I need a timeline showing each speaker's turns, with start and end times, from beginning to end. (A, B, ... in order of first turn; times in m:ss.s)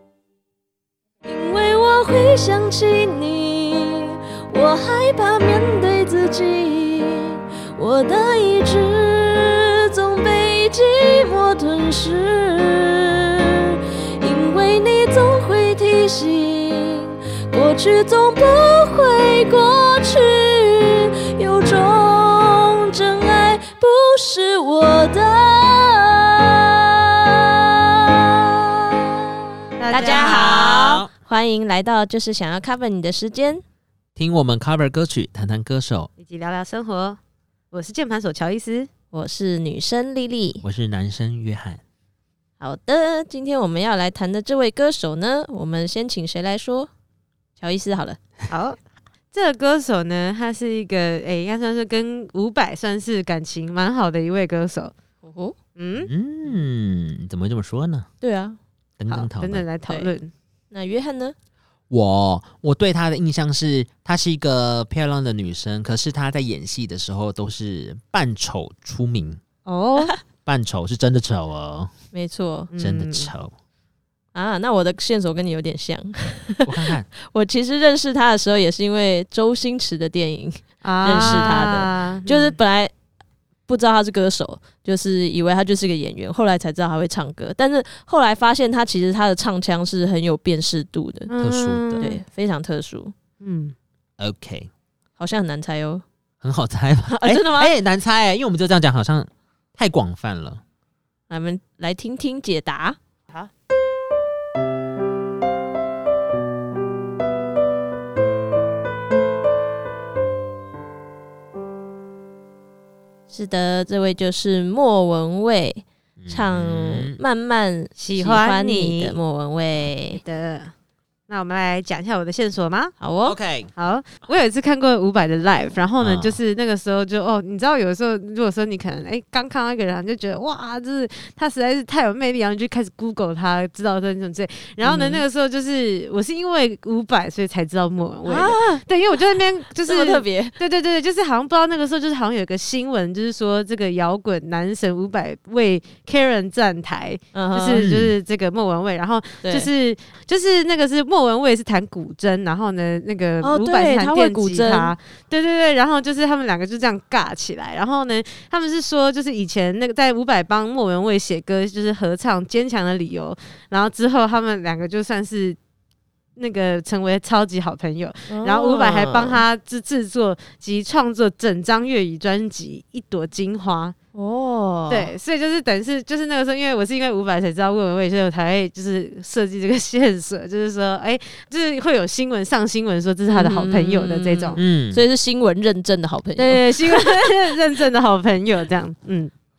0:01.2-0:29.2 A
0:29.8-0:30.6 B
0:29.9-0:31.1 C
0:29.9-0:33.6 A
0:34.2-0:36.1 C
0:36.2-0:37.2 B
0:37.7-0:38.9 B
0:39.1-0:40.6 A
0:40.6-0:41.8 C
0:42.6-0:46.9 A
0:47.6-0:48.2 A
0:48.5-0:48.8 B
0:49.3-0:54.9 B
0:55.2-0:55.6 A
0:55.8-0:56.1 B
0:56.0-0:58.1 C
0:58.2-0:58.6 A
0:59.0-0:59.6 C
0:59.1-1:00.3 B
1:00.7-1:01.3 A
1:01.9-1:09.4 C
1:09.6-1:10.2 B
1:10.4-1:11.9 C
1:12.1-1:12.7 A
1:12.7-1:13.3 B
1:12.8-1:13.5 C
1:14.3-1:22.9 A
1:16.6-1:17.1 C
1:20.8-1:22.6 B
1:21.1-1:21.6 C
1:23.7-1:31.3 A
1:31.3-1:32.2 B
1:31.4-1:32.1 C
1:32.0-1:33.1 A
1:33.4-1:33.7 B
1:34.2-1:34.7 C
1:35.2-1:36.0 A
1:36.4-1:40.6 C
1:37.1-1:37.7 A
1:41.3-1:43.0 A
1:53.3-2:00.2 A
1:56.2-1:57.2 C
1:58.0-1:59.2 B
2:00.1-2:00.7 B
2:01.3-2:03.0 B
2:03.0-2:03.4 A
2:03.2-2:03.7 C
2:03.8-2:45.6 B
2:06.0-2:06.4 C
2:14.8-2:15.2 A
2:18.2-2:18.8 A
2:19.8-2:20.6 A
2:27.3-2:27.9 A
2:27.7-2:28.2 C
2:29.4-2:29.7 A
2:33.4-2:34.9 A
2:46.4-2:53.9 B
2:48.3-2:49.4 A
2:54.1-2:55.1 A
2:54.9-3:04.6 B
3:03.3-3:07.5 A
3:04.6-3:05.0 C
3:06.4-3:09.3 B